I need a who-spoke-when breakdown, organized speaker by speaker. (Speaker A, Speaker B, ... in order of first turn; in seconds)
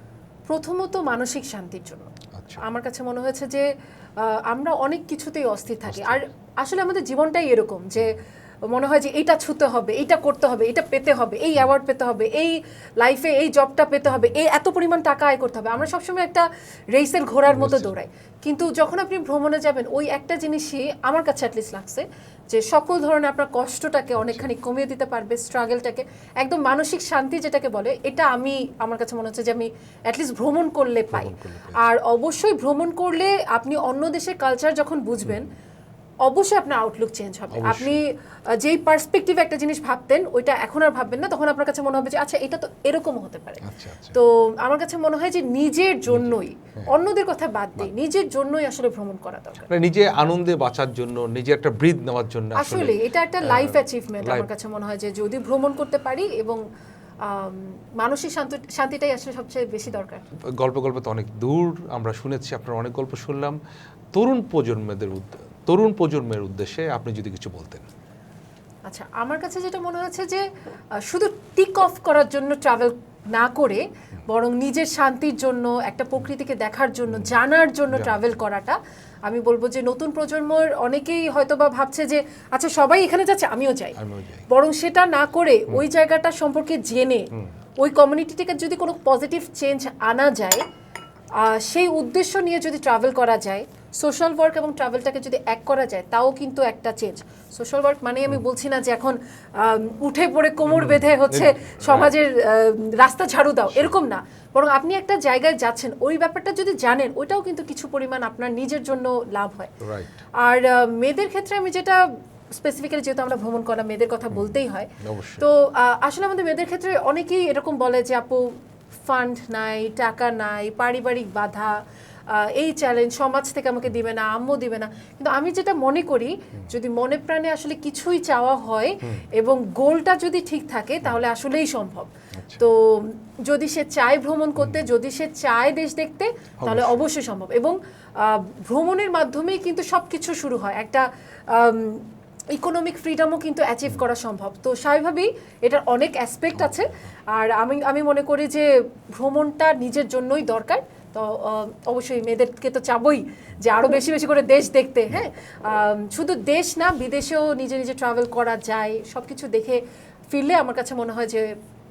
Speaker A: 0.5-2.1, 2.6-3.6, 4.2-35.5, 36.2-43.6, 44.1-49.7, 52.5-56.6, 57.2-60.2, 68.9-70.4, 71.0-84.0, 84.5-90.6, 91.4-109.7, 110.4-118.5, 119.0-121.7, 122.3-161.5
Speaker B: 2.3-2.6, 5.9-6.2, 17.5-17.9, 24.2-24.5, 31.1-31.8, 37.5-38.0, 43.6-44.1, 46.1-46.9, 49.7-54.5, 60.5-63.6, 64.1-67.8, 77.9-78.2, 84.0-84.5, 100.7-102.1, 109.8-110.1, 114.3-115.4, 132.3-132.6, 136.6-137.0